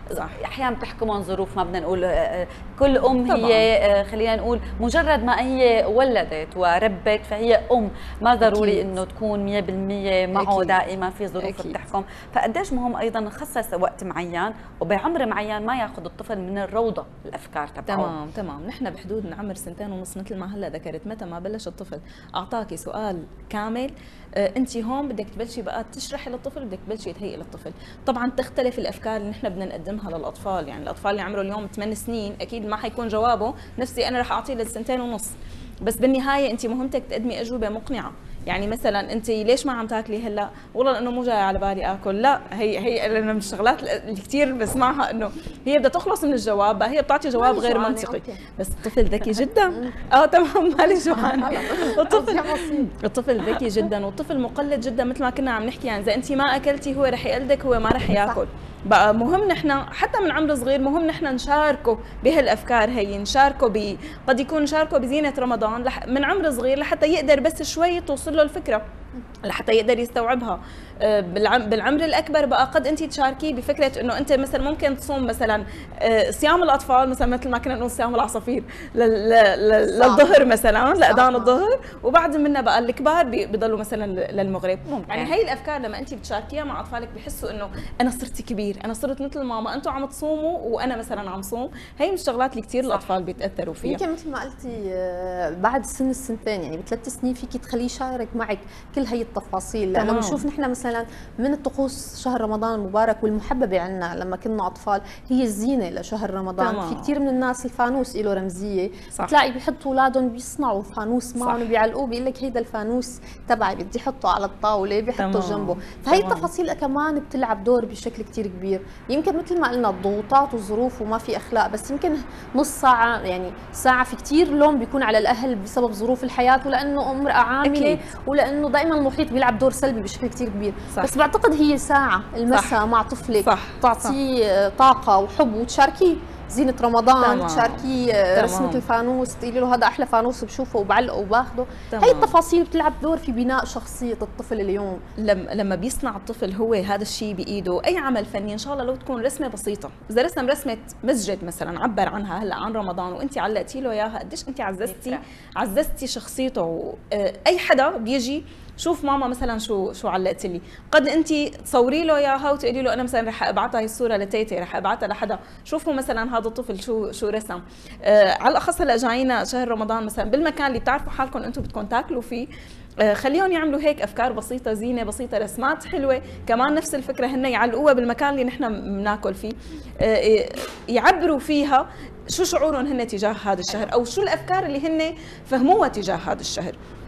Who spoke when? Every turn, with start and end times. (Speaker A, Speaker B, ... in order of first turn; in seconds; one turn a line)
Speaker A: 0.3-18.1
Speaker B: 3.2-3.7
Speaker B: 8.4-8.8
Speaker B: 10.3-10.8
Speaker B: 11.4-11.8
Speaker B: 17.9-68.8
Speaker C: 47.4-48.4
Speaker C: 49.2-49.9
Speaker C: 51.1-52.9
Speaker C: 58.1-58.4
Speaker B: 69.5-94.0
Speaker C: 79.9-81.5
Speaker A: 84.8-85.4
Speaker A: 92.9-93.1
Speaker C: 93.8-145.0
Speaker B: 99.9-100.4
Speaker B: 106.6-107.1
Speaker B: 111.4-111.6
Speaker B: 115.2-116.5
Speaker B: 127.7-128.0
Speaker B: 132.5-132.8
Speaker B: 133.4-134.1
Speaker B: 137.2-138.8
Speaker B: 141.9-142.3
Speaker B: 145.2-172.4
Speaker A: 154.8-155.2
Speaker B: 173.0-186.8